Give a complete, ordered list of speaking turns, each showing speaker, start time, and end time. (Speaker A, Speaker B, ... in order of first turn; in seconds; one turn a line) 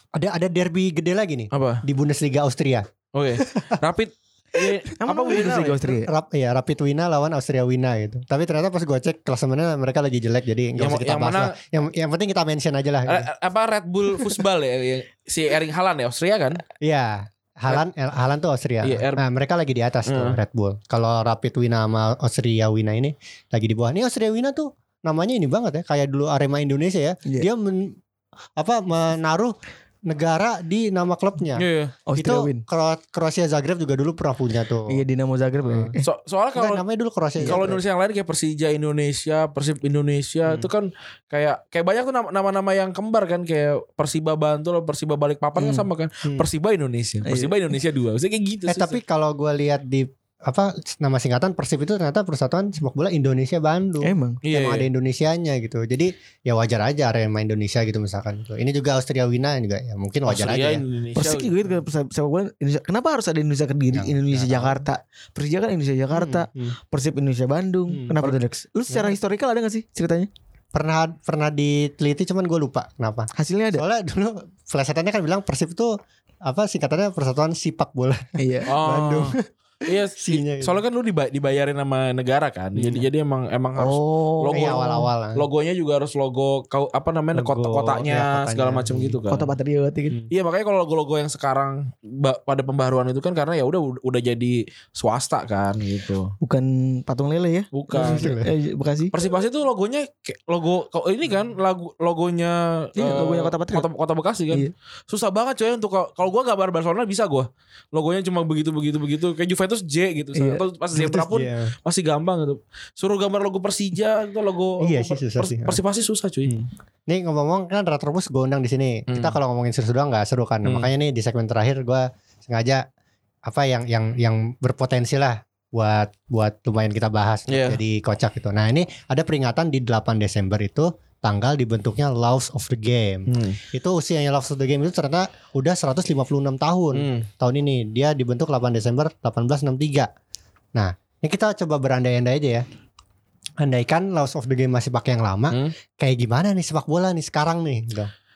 Speaker A: 0.1-2.9
Speaker B: 1.5-1.8
Speaker B: 3.1-5.8
Speaker A: 3.4-3.8
Speaker C: 5.0-6.1
Speaker A: 5.9-13.3
Speaker B: 10.8-11.5
Speaker B: 13.1-16.6
Speaker A: 16.8-28.0
Speaker B: 18.8-19.2
Speaker B: 20.1-20.4
Speaker A: 28.6-29.5
Speaker A: 30.1-31.6
Speaker B: 31.6-31.9
Speaker C: 32.1-32.6
Speaker A: 32.2-35.0
Speaker C: 34.9-36.1
Speaker A: 35.6-35.9
Speaker B: 36.0-36.8
Speaker A: 36.5-37.8
Speaker C: 37.4-37.7
Speaker B: 37.4-49.0
Speaker A: 45.6-46.5
Speaker C: 47.2-47.6
Speaker A: 48.7-60.8
Speaker C: 54.0-54.4
Speaker B: 54.4-54.9
Speaker B: 60.3-61.5
Speaker C: 61.2-70.3
Speaker A: 63.9-64.9
Speaker A: 66.1-66.8
Speaker A: 68.9-69.2
Speaker A: 70.7-75.9
Speaker C: 73.3-73.8
Speaker A: 76.5-79.4
Speaker C: 78.4-78.7
Speaker B: 78.7-89.5
Speaker A: 80.2-80.8
Speaker A: 82.8-83.1
Speaker C: 83.8-84.8
Speaker A: 84.5-85.5
Speaker A: 87.3-89.2
Speaker C: 89.3-90.3
Speaker B: 90.3-96.3
Speaker C: 96.4-99.2
Speaker B: 97.7-98.3
Speaker A: 98.0-98.5
Speaker B: 99.1-116.7
Speaker C: 103.0-103.9
Speaker C: 110.3-110.6
Speaker A: 110.9-111.7
Speaker A: 114.8-115.8
Speaker A: 117.1-122.8
Speaker B: 119.1-119.3
Speaker A: 123.5-140.1
Speaker B: 127.5-127.8
Speaker B: 133.3-133.6
Speaker B: 136.9-137.3
Speaker A: 140.8-142.6
Speaker A: 143.6-148.1